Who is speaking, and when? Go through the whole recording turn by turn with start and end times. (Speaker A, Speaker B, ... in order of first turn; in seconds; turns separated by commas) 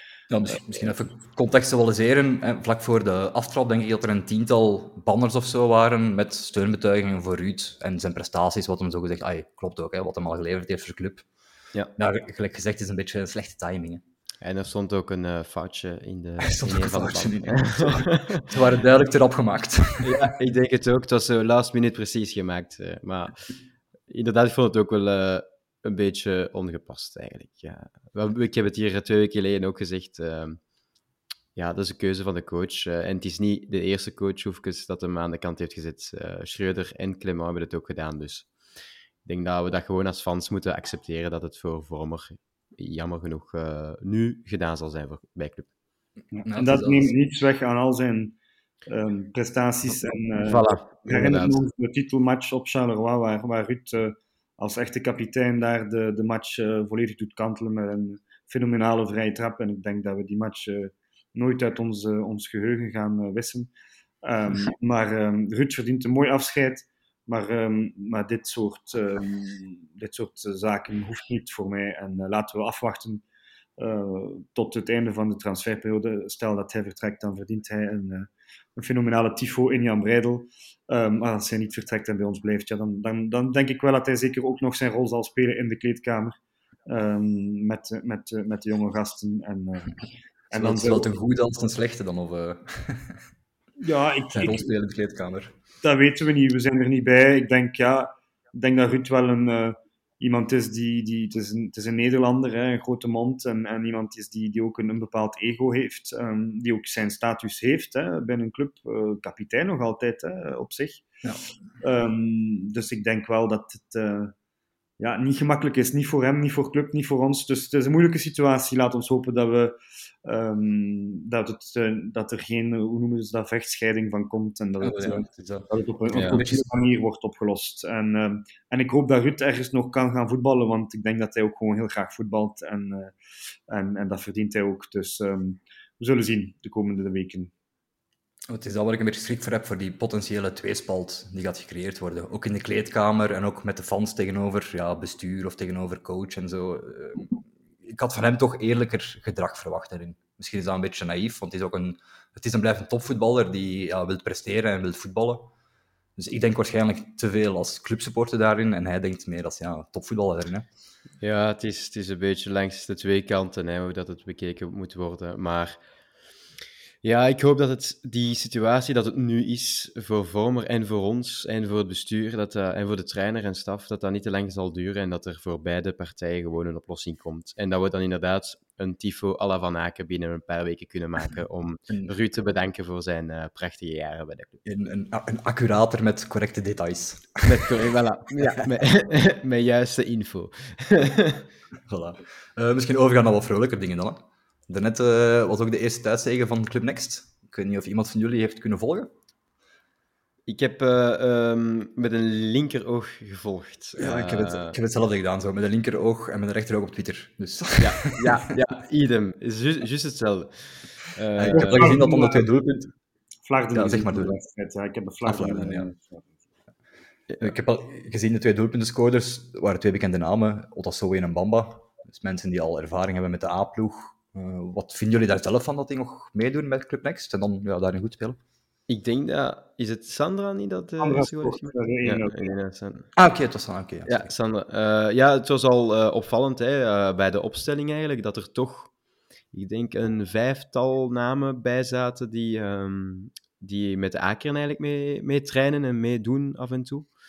Speaker A: 0.3-11.2, Speaker B: 0.5-1.0, Speaker A: 12.0-14.0, Speaker C: 14.4-18.5, Speaker A: 16.4-20.3, Speaker C: 20.0-23.5, Speaker C: 24.1-30.6, Speaker C: 31.6-38.5, Speaker C: 39.2-45.7, Speaker B: 46.3-63.7, Speaker A: 46.5-47.1, Speaker C: 50.4-51.6, Speaker B: 64.2-73.2, Speaker B: 73.8-86.3, Speaker B: 86.9-91.1, Speaker A: 90.5-93.2, Speaker B: 93.8-94.7, Speaker A: 94.3-95.5, Speaker B: 95.8-111.1, Speaker B: 111.8-114.3, Speaker B: 115.0-133.1, Speaker A: 124.8-126.7, Speaker C: 126.1-126.4, Speaker B: 133.7-137.5, Speaker A: 138.5-155.5, Speaker A: 156.2-160.7, Speaker C: 161.2-165.8, Speaker C: 167.0-184.6, Speaker A: 184.6-187.7, Speaker C: 187.4-191.5, Speaker A: 191.9-199.1, Speaker C: 200.5-204.8, Speaker A: 204.0-208.4, Speaker C: 207.8-212.0, Speaker A: 211.4-212.9, Speaker B: 211.5-212.4, Speaker B: 213.4-216.3, Speaker A: 213.7-214.3, Speaker A: 215.2-215.9, Speaker C: 217.3-217.6, Speaker A: 217.4-228.4, Speaker C: 228.9-233.1, Speaker B: 231.0-232.5, Speaker A: 233.2-234.3, Speaker C: 234.1-238.9, Speaker C: 239.5-247.1